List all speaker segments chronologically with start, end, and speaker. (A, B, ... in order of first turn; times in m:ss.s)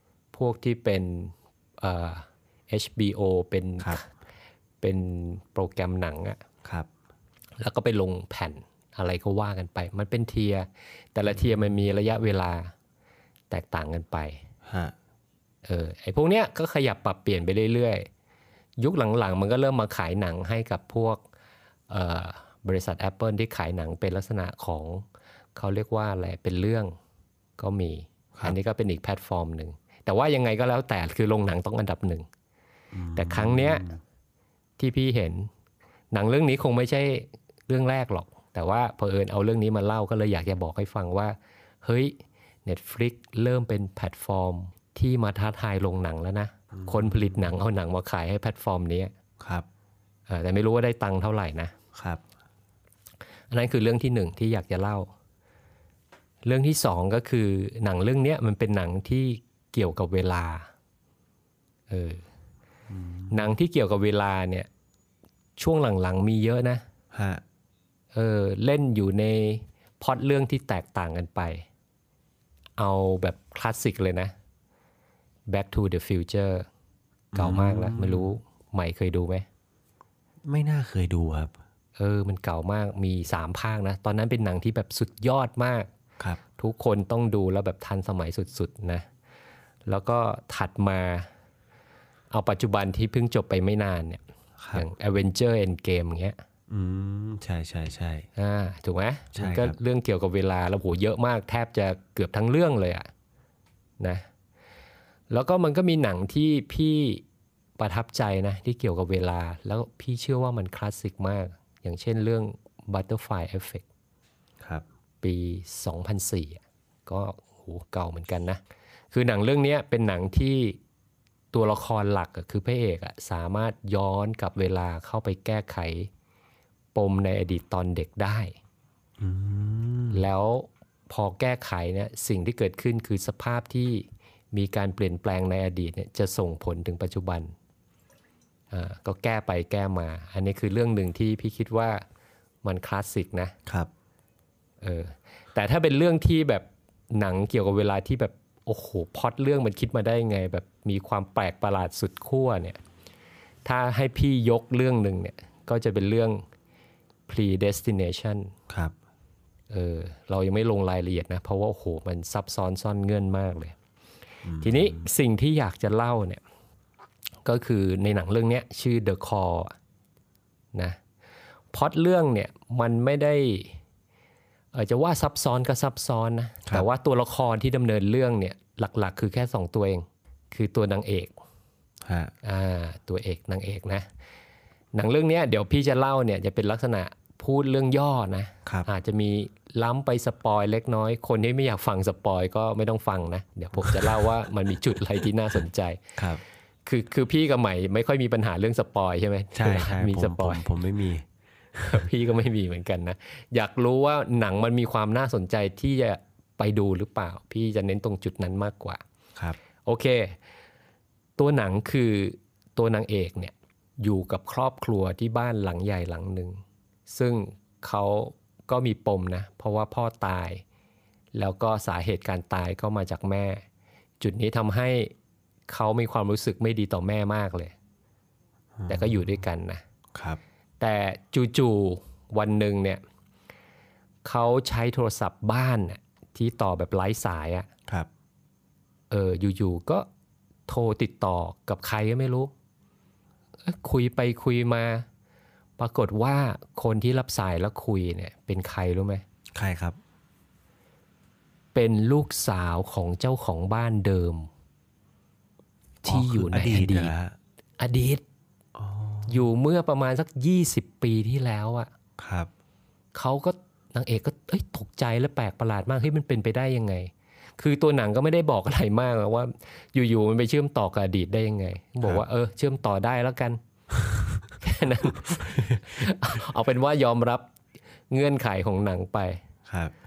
0:00.3-0:04.0 A
0:04.8-0:06.4 A
0:07.6-0:12.7 A
0:11.4-0:11.6 B
0:13.5-0:14.4 A
0:14.6-0:14.9 B
0:15.6-0:18.1 A
0:18.8-0:21.2 A
0:21.9-0:25.0 A
0:25.6-0:26.9 A
0:27.6-0:32.2 A
0:32.9-0:34.0 B
0:33.2-0:33.9 A
0:34.8-0:35.5 A
0:36.1-0:49.1 A
0:46.7-0:47.5 B
0:49.4-0:49.6 B
0:50.3-0:51.7 A
0:51.9-0:52.2 B
0:53.5-0:55.1 A
0:56.4-1:00.7 A
1:01.9-1:02.2 A
1:02.9-1:03.5 B
1:03.3-1:04.7 A
1:05.6-1:06.8 A
1:07.1-1:07.4 B
1:08.1-1:11.6 A
1:12.8-1:14.3 A
1:15.5-1:16.7 A
1:17.3-1:18.3 B
1:17.3-1:19.4 A
1:20.4-1:21.5 B
1:22.0-1:25.9 A
1:26.6-1:29.0 A
1:29.8-1:31.3 A
1:32.3-1:34.2 A
1:34.6-1:34.9 B
1:34.7-1:36.4 A
1:36.7-1:38.3 B
1:38.4-1:43.1 A
1:39.3-1:39.8 B
1:44.0-1:44.2 A
1:45.3-1:47.2 A
1:47.8-1:53.8 A
1:55.2-1:58.6 A
1:59.1-2:00.8 A
2:01.5-2:06.1 A
2:06.9-2:08.5 A
2:09.2-2:10.2 B
2:10.1-2:17.5 A
2:18.7-2:22.0 A
2:22.6-2:23.5 A
2:24.8-2:32.8 A
2:33.6-2:36.4 A
2:37.3-2:38.5 A
2:38.7-2:38.9 B
2:39.7-2:43.7 A
2:44.4-2:45.1 B
2:44.6-2:46.4 A
2:47.4-2:49.7 A
2:51.7-2:53.8 A
2:54.7-3:01.3 A
3:02.0-3:02.3 B
3:02.4-3:04.0 A
3:04.9-3:16.2 A
3:13.8-3:14.3 B
3:16.2-3:16.4 B
3:16.8-3:20.7 A
3:19.5-3:21.2 B
3:21.8-3:22.0 B
3:21.8-3:29.0 A
3:29.8-3:30.4 A
3:31.4-3:40.6 A
3:41.3-3:43.6 A
3:44.2-3:45.1 A
3:45.7-3:47.7 A
3:48.8-3:49.3 B
3:48.9-3:49.8 A
3:50.1-3:50.4 B
3:50.8-3:53.0 A
3:54.2-3:57.7 A
3:59.1-4:00.0 A
4:00.7-4:02.5 A
4:03.6-4:05.0 A
4:05.8-4:09.2 A
4:09.5-4:10.0 B
4:11.7-4:14.5 A
4:16.0-4:17.1 A
4:16.0-4:17.4 B
4:17.8-4:18.2 A
4:18.7-4:19.5 B
4:19.3-4:21.9 A
4:22.2-4:22.5 B
4:23.1-4:33.6 A
4:34.6-4:37.5 A
4:35.2-4:36.0 B
4:38.1-4:39.4 A
4:39.7-4:39.9 B